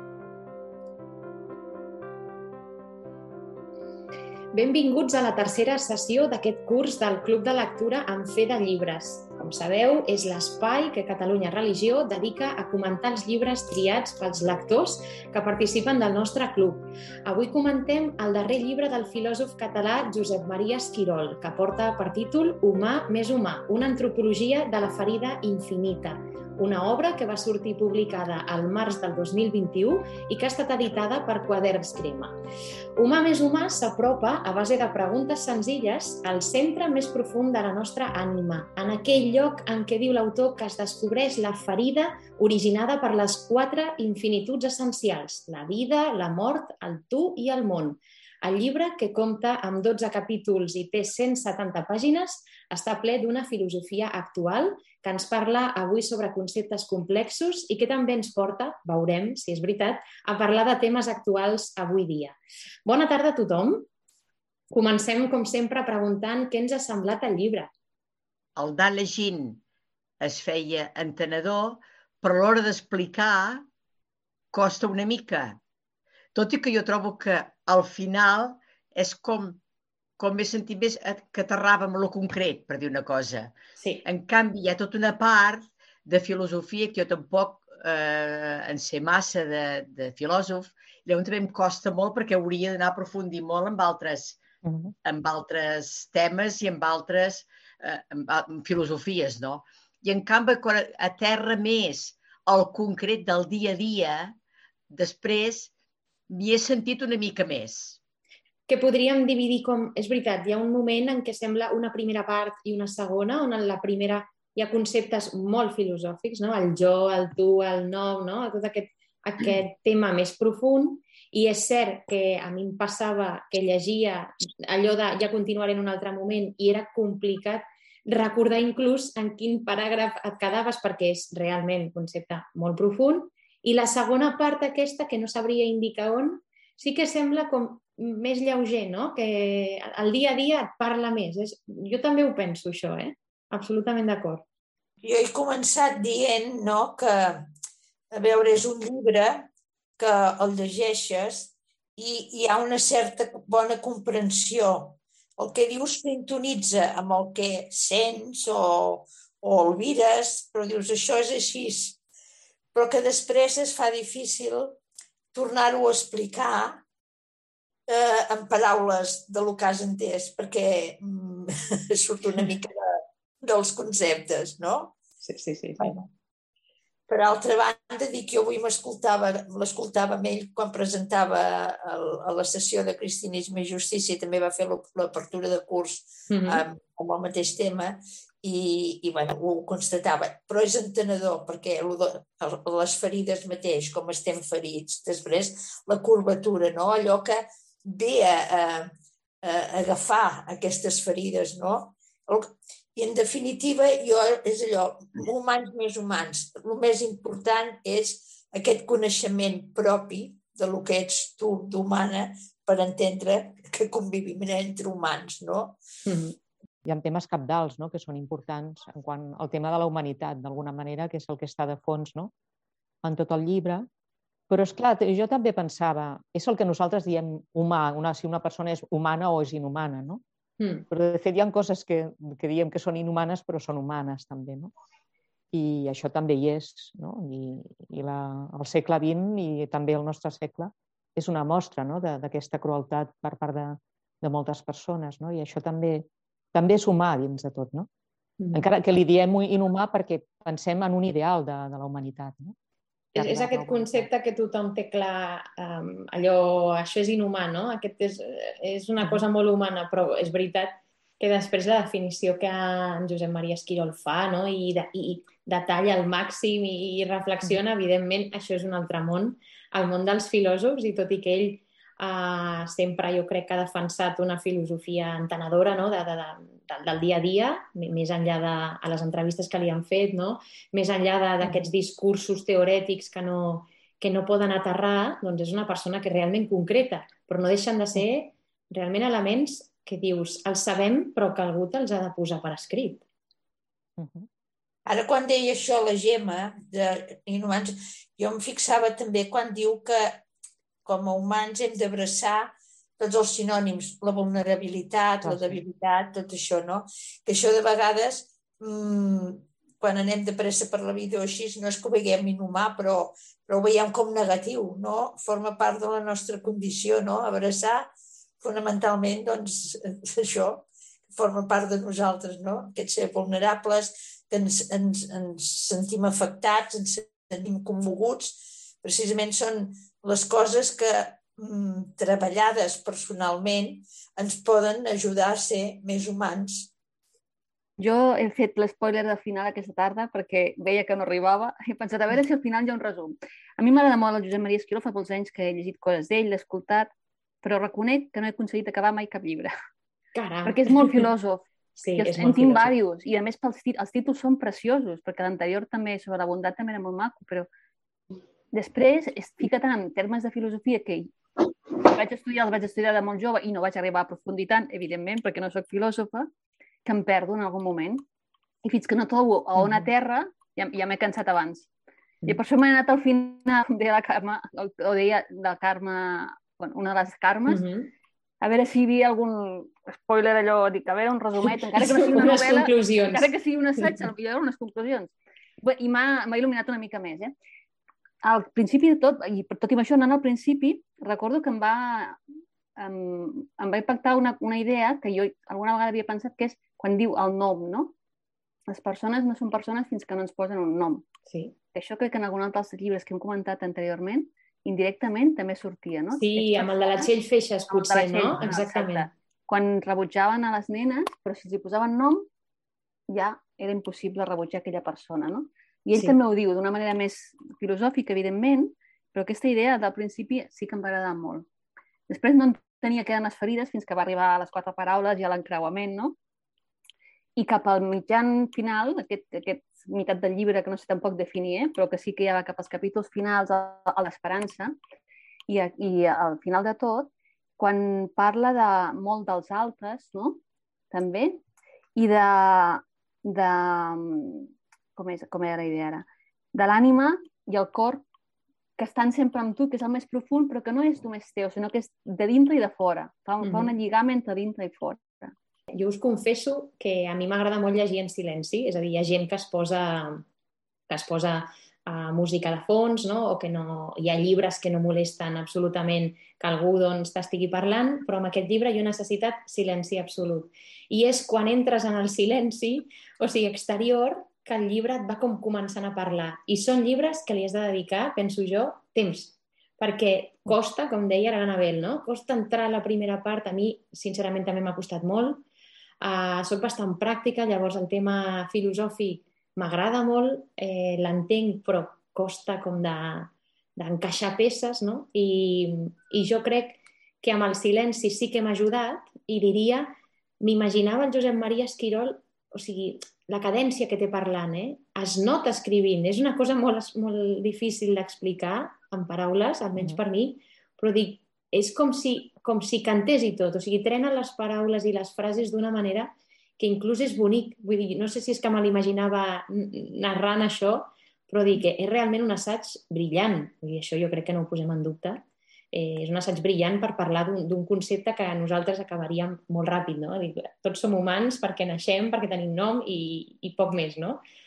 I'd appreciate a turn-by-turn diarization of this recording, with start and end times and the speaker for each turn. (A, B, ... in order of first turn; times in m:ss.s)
0:04.5-0:32.3 A
0:33.0-1:03.9 A
1:04.7-1:07.7 A
1:08.6-1:09.6 B
1:10.2-1:13.6 B
1:14.5-1:15.6 B
1:16.3-1:19.6 B
1:20.2-1:34.4 B
1:23.8-1:24.0 A
1:34.6-1:34.9 C
1:35.0-1:44.4 B
1:44.9-1:45.7 B
1:46.3-1:48.0 B
1:48.7-2:24.4 A
2:25.0-2:27.5 D
2:28.1-2:42.0 D
2:42.7-2:44.8 D
2:45.3-2:46.8 D
2:47.9-2:55.0 D
2:55.2-2:56.0 A
2:55.8-2:56.0 D
2:57.1-3:35.8 D
3:06.3-3:06.6 A
3:36.0-3:36.3 A
3:36.8-3:42.3 C
3:43.0-3:43.8 C
3:44.5-3:50.2 C
3:50.6-3:50.8 A
3:50.9-3:54.7 C
3:55.5-4:07.9 C
4:08.4-4:08.6 A
4:08.5-4:12.6 C
4:13.1-4:53.0 A
4:13.1-4:14.1 C
4:41.4-4:41.7 C
4:54.0-4:54.3 C
4:54.8-5:00.2 D
5:00.8-5:36.7 D
5:05.2-5:05.6 C
5:37.8-5:46.9 E
5:47.4-5:49.5 E
5:50.1-5:51.0 A
5:50.4-5:57.5 E
5:51.8-5:52.7 A
5:58.5-6:01.1 E
6:01.7-6:06.3 E
6:06.8-6:08.0 E
6:08.6-6:11.7 E
6:09.6-6:09.9 A
6:12.3-6:17.6 E
6:17.5-6:17.9 A
6:18.4-6:27.3 E
6:21.8-6:24.0 A
6:28.2-6:32.2 E
6:32.8-6:37.9 E
6:38.7-6:41.0 E
6:41.3-6:41.5 A
6:41.7-6:47.1 E
6:46.2-6:49.1 A
6:47.7-6:52.3 E
6:53.1-7:01.4 E
7:02.1-7:06.2 E
7:07.4-7:14.7 E
7:15.5-7:21.4 E
7:22.0-7:28.0 E
7:28.8-7:35.3 E
7:33.4-7:33.7 A
7:35.7-7:40.2 A
7:40.9-8:05.4 A
8:06.0-8:45.2 A
8:45.7-8:54.2 A